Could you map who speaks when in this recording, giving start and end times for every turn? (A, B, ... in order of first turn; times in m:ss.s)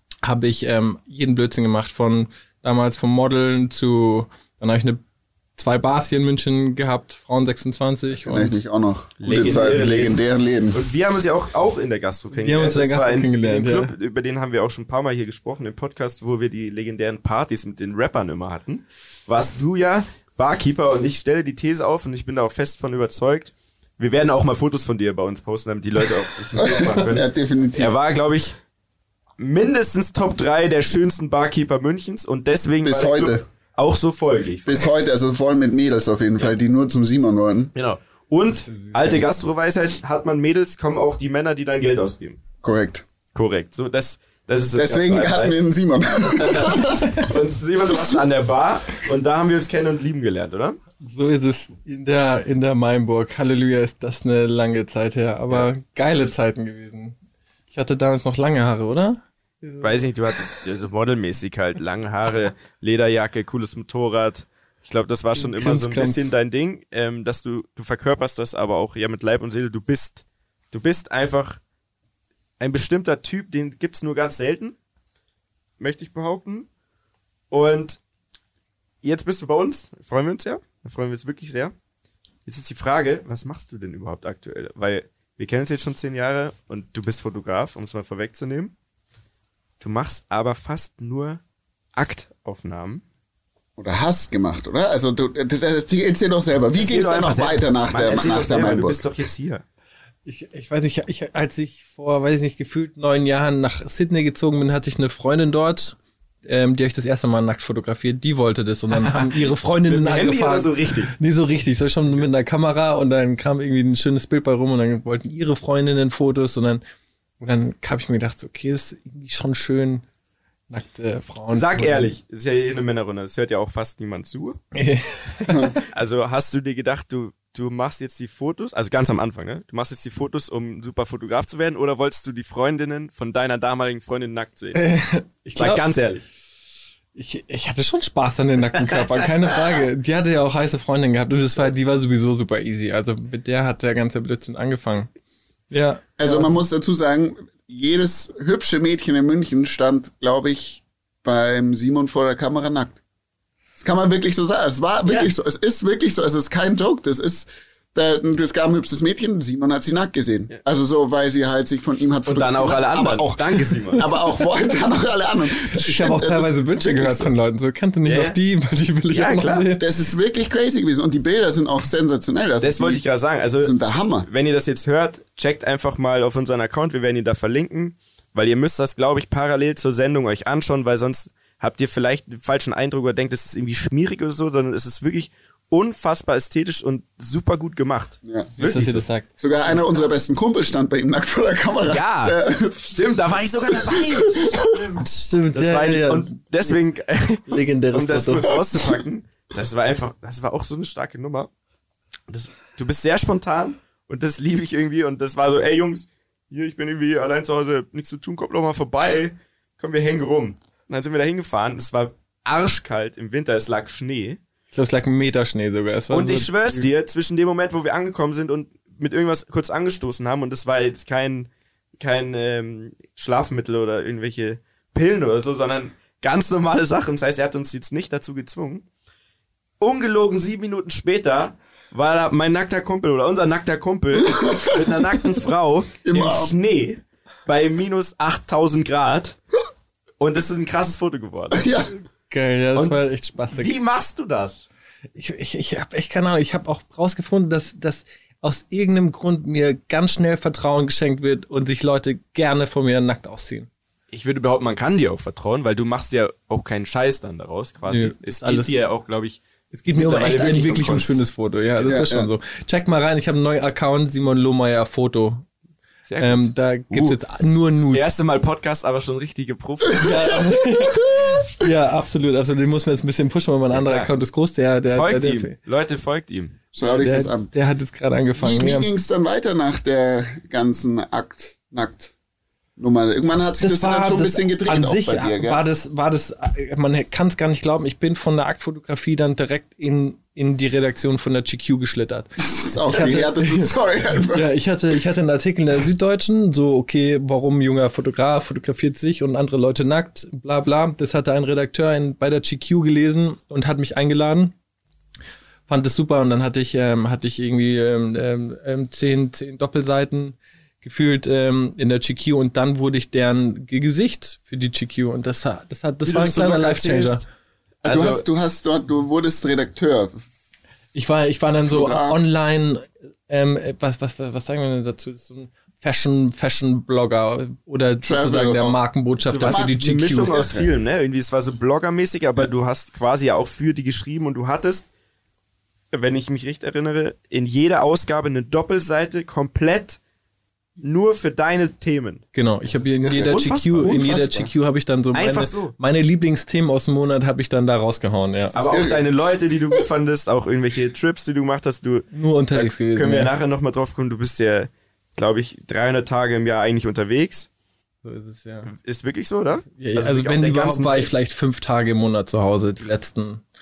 0:00.2-0:05.0 A
0:05.6-0:08.6 A
0:08.2-0:10.8 B
0:09.2-0:10.2 C
0:10.7-0:28.6 C
0:12.3-0:13.9 A
0:26.6-0:27.9 B
0:29.4-0:34.8 C
0:32.8-0:33.4 B
0:34.6-0:37.7 B
0:37.7-0:42.4 C
0:38.6-0:39.3 A
0:42.6-0:43.0 B
0:43.3-0:45.6 C
0:44.8-0:47.3 B
0:46.2-0:50.8 C
0:51.0-0:57.2 A
0:57.7-1:00.6 A
0:59.8-1:11.6 C
1:05.4-1:06.3 A
1:12.6-1:14.8 C
1:15.8-1:16.7 C
1:17.5-1:18.0 C
1:19.0-1:21.7 C
1:22.4-1:28.7 C
1:29.8-1:31.4 C
1:32.0-1:33.0 C
1:33.8-1:39.1 B
1:36.8-1:39.6 C
1:40.2-1:56.8 A
1:48.9-1:51.1 C
1:57.4-2:00.0 A
2:00.7-2:02.1 A
2:01.5-2:04.6 C
2:04.7-2:05.8 A
2:05.5-2:05.7 B
2:05.8-2:14.8 C
2:14.7-2:15.8 A
2:15.5-2:16.3 C
2:17.1-2:25.1 A
2:25.7-2:26.5 A
2:26.2-2:33.0 B
2:33.8-2:47.3 B
2:35.0-2:35.3 C
2:42.2-2:44.0 C
2:45.7-2:49.9 A
2:48.0-2:48.4 C
2:49.1-2:49.7 C
2:49.8-2:53.0 B
2:52.6-2:53.7 C
2:53.6-2:54.3 B
2:54.2-3:09.0 C
3:08.2-3:08.5 B
3:08.6-3:09.3 A
3:09.4-3:12.7 B
3:11.9-3:14.7 C
3:13.7-3:14.8 B
3:14.9-3:16.5 A
3:15.5-3:21.5 C
3:17.5-3:18.6 A
3:22.3-3:34.4 C
3:34.7-3:36.8 A
3:36.1-3:48.8 C
3:49.8-3:59.4 C
3:54.4-3:54.8 B
3:56.0-3:56.5 B
4:00.2-4:01.7 C
4:01.5-4:01.9 B
4:02.3-4:03.7 A
4:02.7-4:03.0 C
4:03.5-4:04.7 C
4:05.1-4:13.7 A
4:14.1-4:19.4 C
4:17.9-4:18.8 A
4:19.7-4:25.5 A
4:19.9-4:21.2 C
4:21.8-4:22.3 B
4:26.0-4:27.2 C
4:26.2-4:28.1 A
4:27.9-4:30.4 C
4:30.0-4:35.5 A
4:33.7-4:34.1 C
4:34.9-4:36.6 C
4:36.7-4:37.5 B
4:36.8-4:38.9 A
4:38.4-4:42.1 B
4:42.8-4:45.6 B
4:43.6-4:53.7 A
4:52.5-4:54.5 B
4:54.3-5:04.5 A
5:05.7-5:17.2 A
5:16.0-5:17.3 C
5:17.8-5:18.2 C
5:17.8-5:20.2 B
5:20.9-5:30.4 A
5:21.6-5:22.2 B
5:28.0-5:28.8 B
5:29.3-5:34.9 C
5:29.4-5:30.7 B
5:35.9-5:40.0 C
5:40.8-5:42.2 C
5:42.3-5:48.6 A
5:42.7-5:44.5 B
5:43.3-5:44.0 C
5:45.1-5:45.7 C
5:48.5-5:57.5 C
5:48.5-5:49.0 B
5:52.1-5:53.3 A
5:58.0-5:58.7 A
5:58.6-6:01.1 C
5:59.8-6:03.4 A